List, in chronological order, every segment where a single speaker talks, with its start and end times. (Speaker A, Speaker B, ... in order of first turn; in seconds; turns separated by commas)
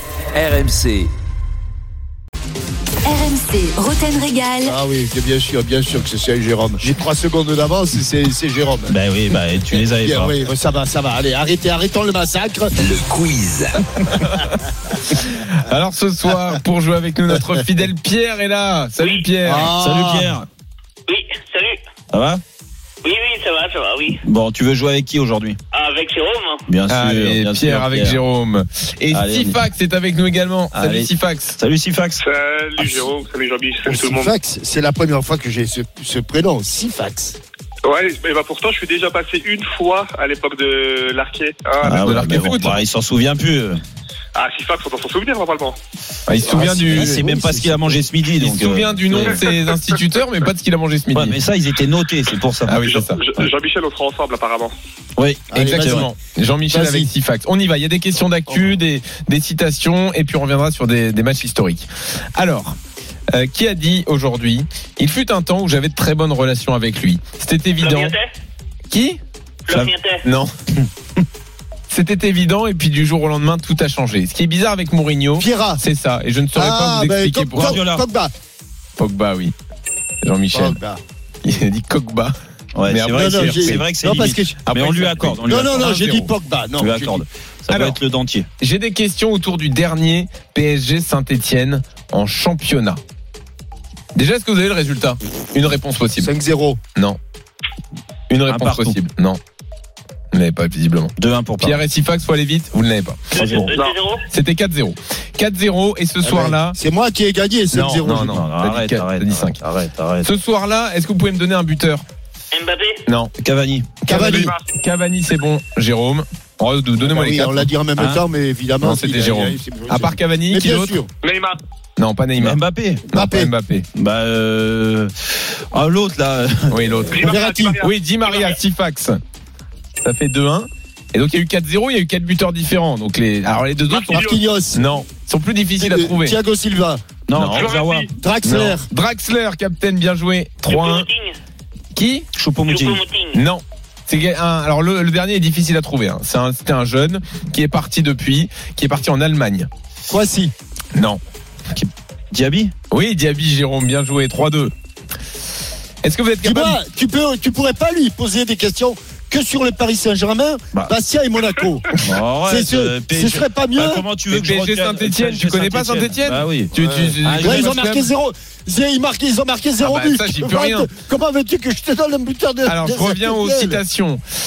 Speaker A: 0.3-1.1, Speaker B: 4.6-8.9, Speaker A: 8.9-10.4, Speaker B: 10.0-12.9, Speaker C: 14.2-14.5, Speaker C: 15.1-19.8, Speaker D: 19.0-19.3, Speaker B: 19.4-20.4, Speaker A: 19.8-20.5, Speaker D: 21.1-21.8, Speaker A: 22.1-22.4, Speaker D: 23.0-24.2, Speaker A: 24.2-25.6, Speaker D: 25.7-26.6, Speaker A: 26.7-28.2, Speaker C: 26.9-31.6, Speaker A: 29.1-29.6, Speaker A: 30.7-32.2, Speaker E: 32.2-34.3, Speaker B: 32.8-33.0, Speaker B: 33.9-37.4, Speaker E: 37.9-42.4, Speaker A: 41.8-43.8, Speaker C: 42.0-42.8, Speaker E: 44.4-45.8, Speaker C: 46.3-47.3, Speaker B: 46.5-48.0, Speaker A: 46.5-49.4, Speaker C: 48.4-51.4, Speaker E: 49.2-50.0, Speaker A: 51.1-52.8, Speaker C: 52.6-53.2, Speaker E: 52.8-54.7, Speaker A: 55.2-56.1, Speaker B: 55.5-56.1, Speaker C: 55.5-62.8, Speaker B: 56.7-57.1, Speaker C: 63.4-68.2, Speaker D: 67.8-68.3, Speaker C: 68.9-69.2, Speaker D: 69.7-70.2, Speaker C: 70.2-70.5, Speaker C: 71.9-77.8, Speaker B: 75.4-75.8, Speaker B: 76.5-78.3, Speaker A: 77.5-78.0, Speaker C: 79.0-79.5, Speaker C: 80.2-80.8, Speaker B: 80.5-81.0, Speaker C: 81.4-82.3, Speaker A: 82.8-86.0, Speaker C: 82.8-83.8, Speaker B: 83.2-84.6, Speaker C: 84.7-86.3, Speaker B: 85.4-87.2, Speaker A: 86.8-88.5, Speaker C: 87.7-88.0, Speaker C: 88.6-93.0, Speaker C: 94.2-96.3, Speaker B: 96.2-96.8, Speaker C: 98.3-99.4, Speaker A: 98.5-99.0, Speaker C: 100.3-103.7, Speaker A: 101.2-101.8, Speaker A: 103.4-103.7, Speaker D: 103.4-104.2, Speaker E: 103.7-104.0, Speaker C: 104.3-106.8, Speaker B: 106.2-108.4, Speaker C: 107.7-109.6, Speaker A: 108.3-110.3, Speaker C: 110.2-112.0, Speaker D: 112.5-113.0, Speaker C: 113.1-113.3, Speaker A: 113.4-114.0, Speaker C: 114.0-117.7, Speaker B: 114.1-114.5, Speaker E: 114.1-114.7, Speaker B: 117.0-121.1, Speaker A: 118.0-118.2, Speaker C: 118.8-121.0, Speaker E: 121.2-121.6, Speaker C: 122.0-122.6, Speaker A: 122.4-123.1, Speaker B: 123.1-123.5, Speaker C: 123.1-123.9, Speaker A: 124.0-125.1, Speaker A: 125.7-127.1, Speaker C: 126.7-129.2, Speaker E: 127.1-128.6, Speaker B: 127.2-127.8, Speaker C: 130.0-136.4, Speaker E: 133.9-134.4, Speaker B: 134.1-135.0, Speaker B: 135.8-137.0, Speaker A: 137.3-138.1, Speaker C: 137.3-137.7, Speaker E: 137.5-138.1, Speaker B: 138.2-138.9, Speaker C: 138.4-141.1, Speaker D: 140.7-141.4, Speaker C: 141.9-142.3, Speaker A: 142.4-143.0, Speaker D: 142.8-143.3, Speaker C: 143.3-149.7, Speaker B: 150.1-150.5, Speaker C: 150.9-151.2, Speaker A: 151.7-152.7, Speaker C: 152.9-154.7, Speaker C: 156.0-156.8, Speaker B: 156.4-161.9, Speaker A: 162.0-166.7, Speaker B: 162.5-164.1, Speaker C: 164.3-168.1, Speaker B: 166.8-173.8, Speaker A: 167.2-167.7, Speaker C: 169.8-170.9, Speaker C: 172.7-174.2